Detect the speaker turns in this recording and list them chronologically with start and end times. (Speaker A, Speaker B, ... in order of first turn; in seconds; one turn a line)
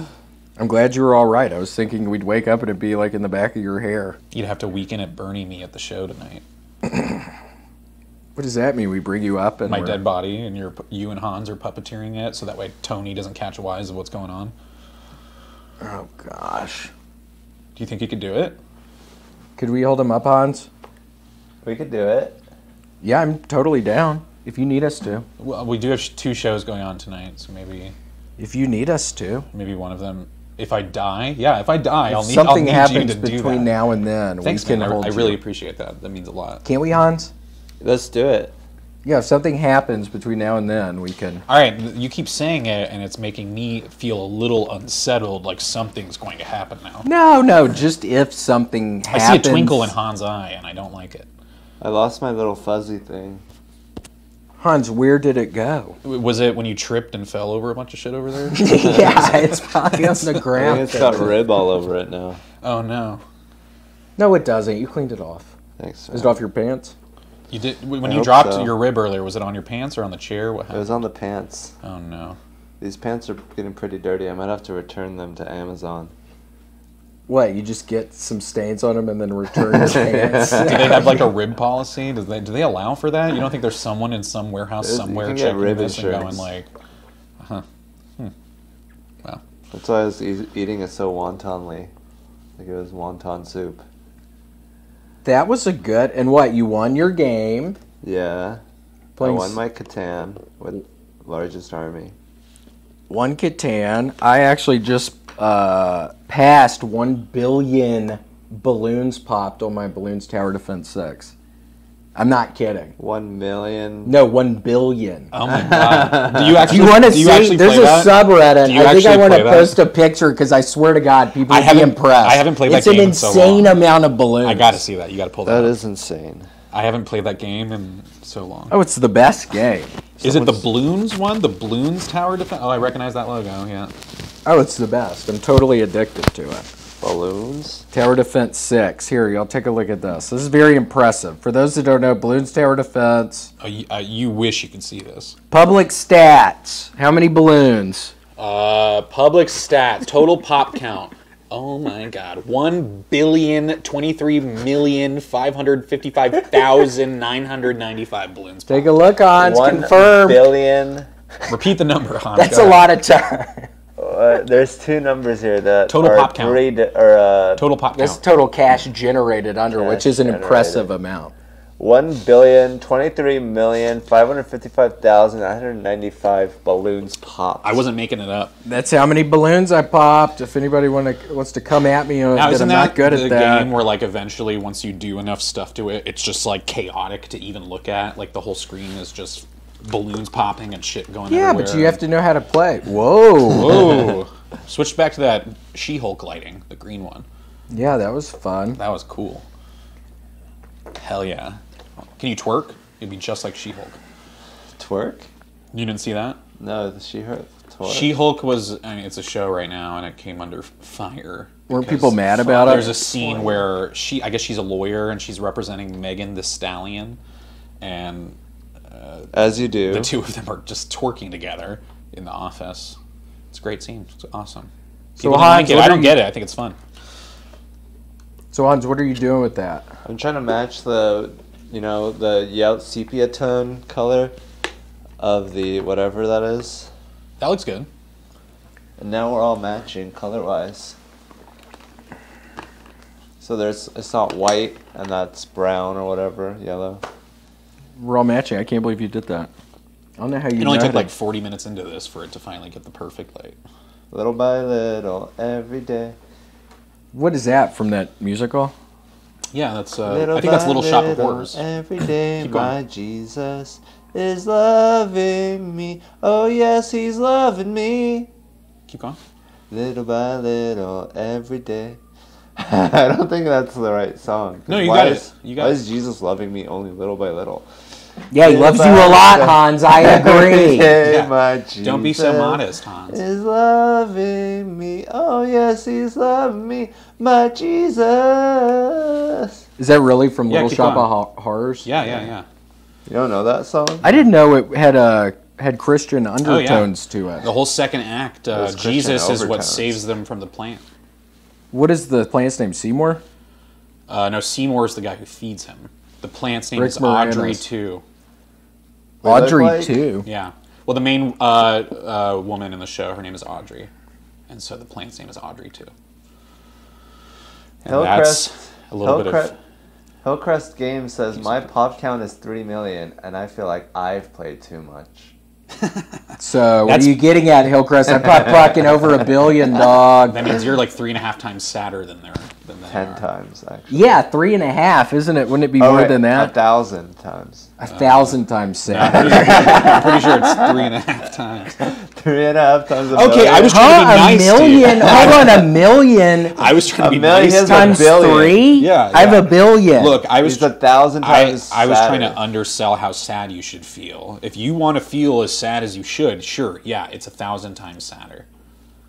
Speaker A: 0.6-4.2
Speaker B: 4.3-6.4
Speaker A: 6.8-7.3
Speaker A: 8.3-10.0
Speaker B: 9.7-14.5
Speaker A: 15.8-16.9
Speaker B: 17.8-18.6
Speaker A: 19.6-20.7
Speaker C: 21.6-22.4
Speaker A: 23.0-25.2
Speaker B: 25.4-27.9
Speaker A: 28.4-29.4
Speaker B: 29.5-33.7
Speaker A: 32.1-35.4
Speaker B: 34.4-36.6
Speaker A: 36.6-37.3
Speaker C: 37.8-38.5
Speaker A: 39.0-41.4
Speaker B: 41.5-47.1
Speaker A: 47.0-49.9
Speaker B: 49.1-51.3
Speaker C: 51.8-53.4
Speaker A: 54.6-56.0
Speaker B: 56.0-60.4
Speaker A: 58.5-61.4
Speaker C: 60.5-62.4
Speaker B: 62.6-63.2
Speaker A: 64.2-65.5
Speaker C: 65.8-66.4
Speaker A: 66.1-66.9
Speaker B: 67.5-70.9
Speaker C: 68.0-68.8
Speaker C: 70.7-71.7
Speaker B: 71.8-72.4
Speaker C: 72.8-76.1
Speaker A: 77.3-81.2
Speaker C: 79.6-81.3
Speaker B: 80.6-86.7
Speaker C: 84.8-86.5
Speaker B: 87.4-87.6
Speaker C: 89.7-91.9
Speaker C: 92.6-93.8
Speaker A: 95.2-97.8
Speaker C: 98.0-98.6
Speaker A: 99.2-99.6
Speaker C: 99.2-102.1
Speaker A: 103.1-111.3
Speaker A: 112.1-112.9
Speaker C: 113.0-114.2
Speaker A: 114.0-115.3
Speaker B: 115.3-119.8
Speaker C: 115.5-116.9
Speaker A: 116.7-124.8
Speaker B: 121.5-123.8
Speaker B: 124.4-125.8
Speaker C: 125.5-126.5
Speaker B: 126.7-128.8
Speaker A: 128.7-130.6
Speaker B: 130.2-133.9
Speaker A: 134.4-136.7
Speaker C: 137.0-137.8
Speaker A: 137.9-143.5
Speaker B: 143.6-145.4
Speaker A: 145.5-148.1
Speaker B: 148.4-158.9
Speaker A: 158.7-160.5
Speaker C: 159.4-161.1
Speaker B: 161.5-162.9
Speaker A: 162.4-163.7
Speaker C: 164.0-167.6
Speaker B: 165.9-166.6
Speaker B: 167.6-168.2
Speaker A: 167.9-171.3
Speaker C: 169.7-170.9
Speaker C: 171.8-177.8
Speaker B: 177.6-178.5
Speaker A: 178.7-183.7
Speaker B: 182.3-192.0
Speaker A: 191.3-194.2
Speaker B: 193.4-197.3
Speaker A: 197.7-198.8
Speaker B: 198.8-199.4
Speaker B: 200.9-201.6
Speaker B: 202.2-204.0
Speaker C: 204.8-205.3
Speaker B: 205.7-206.4
Speaker C: 206.6-208.1
Speaker B: 207.8-217.2
Speaker A: 211.7-212.9
Speaker C: 212.5-213.7
Speaker B: 217.8-223.0
Speaker C: 219.3-220.1
Speaker B: 223.5-226.8
Speaker A: 225.2-226.2
Speaker A: 228.5-229.9
Speaker C: 230.0-234.3
Speaker C: 235.2-236.9
Speaker B: 237.4-237.9
Speaker C: 239.0-241.0
Speaker C: 243.4-247.0
Speaker A: 247.9-249.5
Speaker A: 250.2-251.1
Speaker B: 250.6-253.6
Speaker C: 254.1-256.1
Speaker A: 257.1-258.7
Speaker B: 259.5-261.6
Speaker C: 260.1-268.3
Speaker B: 262.4-262.8
Speaker B: 268.9-269.2
Speaker C: 269.7-272.0
Speaker C: 272.6-277.7
Speaker B: 274.7-275.8
Speaker A: 278.3-281.0
Speaker C: 278.4-289.6
Speaker B: 281.0-283.2
Speaker A: 289.8-292.2
Speaker B: 290.5-291.1
Speaker B: 291.8-292.4
Speaker C: 293.1-294.1
Speaker A: 294.0-297.5
Speaker B: 296.4-300.8
Speaker C: 298.5-300.0
Speaker A: 301.7-303.2
Speaker B: 304.1-308.0
Speaker A: 306.8-307.6
Speaker C: 309.2-310.0
Speaker A: 309.2-310.3
Speaker B: 310.2-313.9
Speaker B: 314.5-315.9
Speaker C: 317.8-318.5
Speaker B: 317.9-319.5
Speaker C: 319.0-319.6
Speaker C: 320.2-325.3
Speaker B: 321.4-321.6
Speaker B: 325.8-326.2
Speaker A: 326.4-330.6
Speaker B: 326.8-327.2
Speaker C: 328.2-329.1
Speaker B: 330.3-333.2
Speaker C: 332.9-334.0
Speaker A: 333.9-336.5
Speaker C: 335.8-337.7
Speaker A: 337.8-340.1
Speaker B: 337.9-338.4
Speaker B: 338.9-341.8
Speaker C: 339.3-340.9
Speaker C: 341.8-343.8
Speaker B: 343.1-345.6
Speaker A: 343.6-346.6
Speaker C: 344.9-345.6
Speaker B: 346.6-348.2
Speaker C: 346.9-348.7
Speaker A: 347.6-350.2
Speaker B: 348.8-358.4
Speaker C: 350.4-352.4